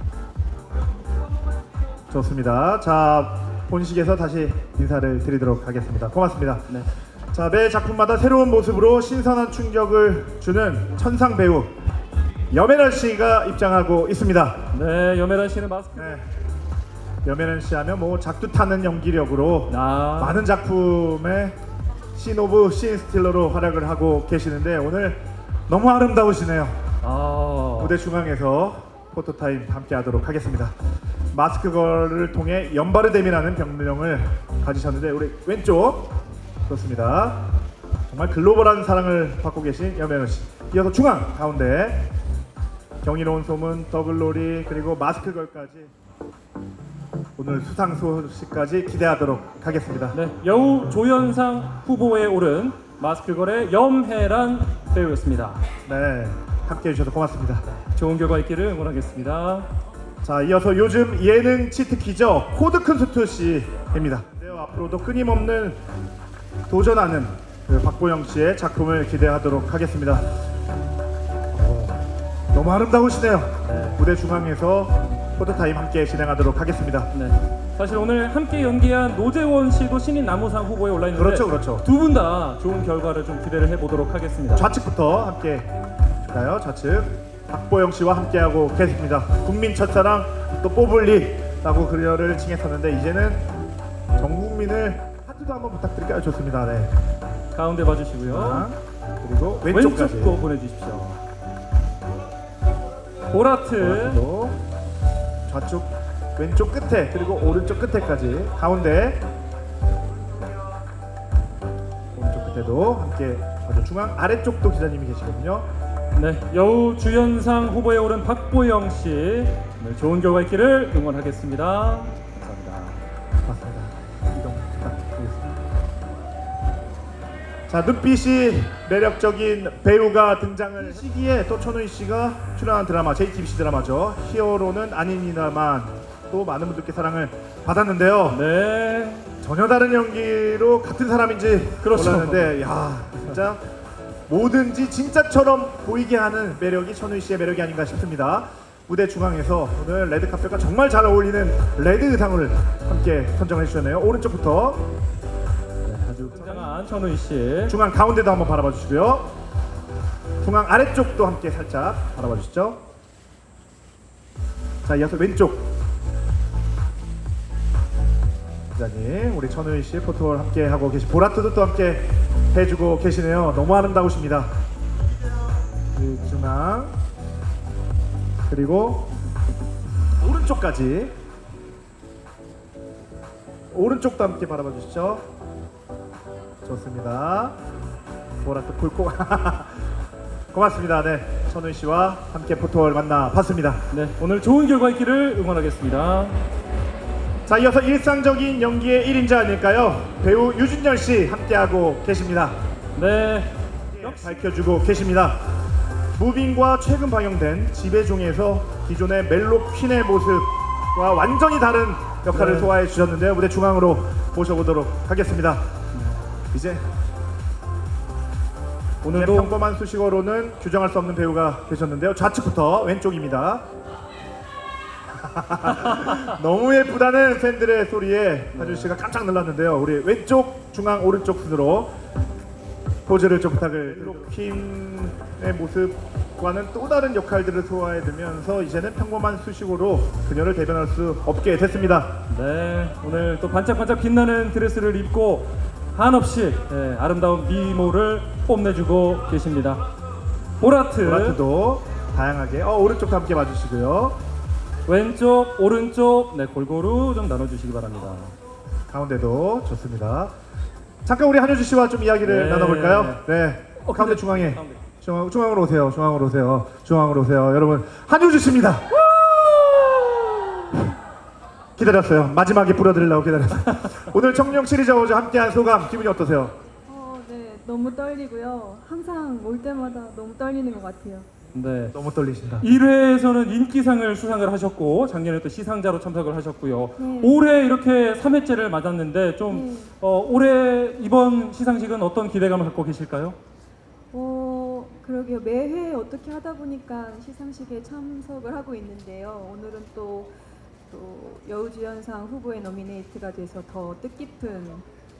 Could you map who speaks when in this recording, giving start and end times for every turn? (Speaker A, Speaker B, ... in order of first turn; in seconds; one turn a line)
Speaker A: 2.1-6.7
Speaker A: 7.3-11.7
Speaker A: 12.5-14.7
Speaker B: 14.7-16.2
Speaker A: 15.9-16.2
Speaker A: 17.2-21.5
Speaker B: 19.7-20.4
Speaker A: 22.1-26.8
Speaker B: 27.0-28.0
Speaker A: 27.8-30.7
Speaker A: 31.3-36.1
Speaker A: 36.6-37.4
Speaker A: 38.1-42.1
Speaker A: 43.0-45.9
Speaker A: 47.4-50.2
Speaker B: 50.1-55.6
Speaker A: 55.8-57.7
Speaker B: 57.8-59.7
Speaker A: 60.2-65.8
Speaker A: 66.7-70.3
Speaker A: 71.5-77.1
Speaker B: 73.6-74.0
Speaker B: 77.1-84.7
Speaker A: 81.1-81.8
Speaker A: 84.5-85.7
Speaker A: 86.2-93.5
Speaker A: 94.1-96.9
Speaker B: 97.5-98.7
Speaker A: 98.2-100.4
Speaker B: 99.7-101.2
Speaker B: 103.3-104.2
Speaker A: 103.8-104.6
Speaker A: 105.5-109.2
Speaker A: 112.1-115.7
Speaker B: 116.1-123.0
Speaker A: 123.4-125.6
Speaker A: 127.7-138.4
Speaker B: 138.3-139.3
Speaker A: 139.4-143.6
Speaker B: 141.8-142.6
Speaker A: 144.3-154.8
Speaker B: 155.8-157.7
Speaker A: 156.4-156.7
Speaker A: 157.7-159.3
Speaker A: 160.4-162.8
Speaker A: 164.8-165.7
Speaker A: 168.7-174.5
Speaker A: 175.9-176.9
Speaker A: 178.5-179.1
Speaker A: 180.2-181.1
Speaker A: 183.7-185.2
Speaker A: 186.6-187.6
Speaker A: 188.4-189.9
Speaker A: 190.5-193.8
Speaker B: 193.9-196.4
Speaker A: 197.4-202.6
Speaker B: 202.9-204.4
Speaker A: 203.9-205.4
Speaker A: 206.2-215.6
Speaker B: 212.3-212.7
Speaker B: 215.9-216.4
Speaker A: 216.5-216.8
Speaker B: 219.0-219.5
Speaker A: 219.1-223.6
Speaker A: 225.2-231.9
Speaker B: 228.5-228.9
Speaker A: 233.1-242.2
Speaker B: 233.9-234.2
Speaker B: 242.3-249.9
Speaker B: 250.6-251.4
Speaker A: 251.0-254.2
Speaker B: 254.8-258.3
Speaker A: 258.9-260.3
Speaker A: 261.0-270.4
Speaker B: 262.2-263.2
Speaker B: 263.8-264.8
Speaker A: 271.8-276.5
Speaker C: 276.9-281.3
Speaker B: 281.5-281.9
Speaker A: 281.9-282.7
Speaker B: 282.6-293.4
Speaker C: 287.0-287.5
Speaker C: 289.5-289.9
Speaker C: 294.1-300.3
Speaker C: 300.9-304.8